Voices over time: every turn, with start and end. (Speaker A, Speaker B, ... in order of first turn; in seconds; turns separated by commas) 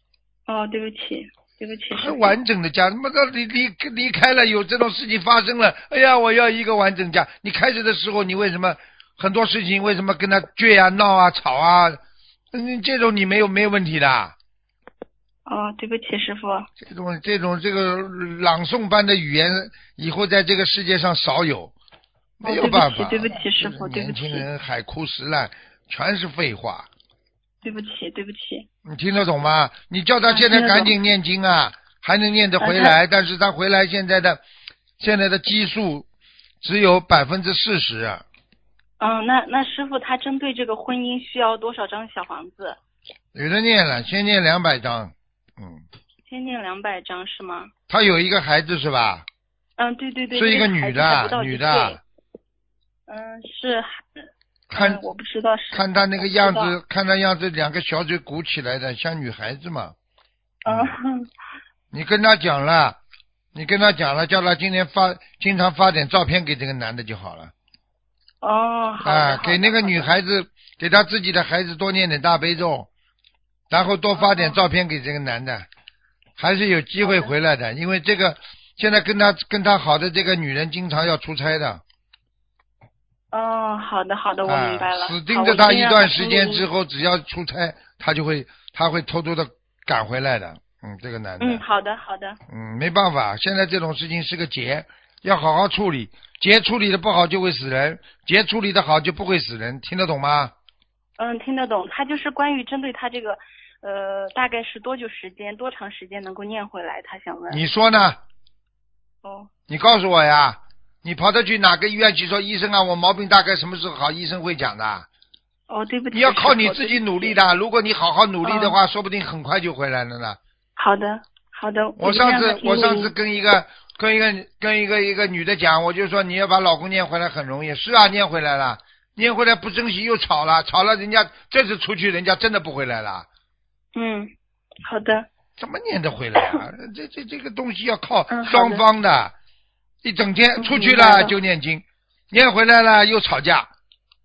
Speaker A: 0.5-2.4, Speaker B: 1.9-12.0, Speaker B: 12.5-14.3, Speaker A: 15.4-16.7, Speaker B: 16.8-21.7, Speaker A: 22.4-24.4, Speaker B: 22.4-26.9, Speaker A: 27.6-28.7, Speaker B: 28.8-34.4, Speaker A: 30.3-30.9, Speaker A: 32.6-33.0, Speaker B: 35.0-36.0, Speaker B: 36.6-38.2, Speaker A: 39.0-42.8, Speaker B: 43.3-45.8, Speaker A: 46.2-47.7, Speaker B: 47.9-49.2, Speaker A: 49.8-52.0, Speaker B: 50.3-52.0, Speaker A: 53.1-56.7, Speaker B: 54.7-55.0, Speaker B: 55.7-59.9, Speaker A: 60.6-61.3, Speaker B: 60.7-60.9, Speaker B: 61.9-63.0, Speaker B: 63.5-67.5, Speaker A: 68.4-70.1, Speaker B: 69.0-72.9, Speaker B: 73.7-75.7, Speaker A: 74.1-74.6, Speaker B: 76.4-81.8, Speaker A: 77.0-77.3, Speaker A: 83.3-86.7, Speaker B: 84.5-91.6, Speaker A: 91.4-92.4, Speaker B: 92.5-100.5, Speaker A: 101.2-107.6, Speaker B: 107.5-108.2, Speaker A: 109.2-109.5, Speaker B: 109.7-115.1, Speaker A: 115.7-117.3, Speaker B: 116.1-120.4, Speaker A: 118.4-118.8, Speaker A: 120.8-123.1, Speaker B: 122.0-133.2, Speaker A: 133.9-134.3, Speaker A: 134.8-135.3, Speaker B: 135.6-139.3, Speaker A: 138.3-138.8, Speaker B: 140.0-143.7, Speaker A: 140.6-141.3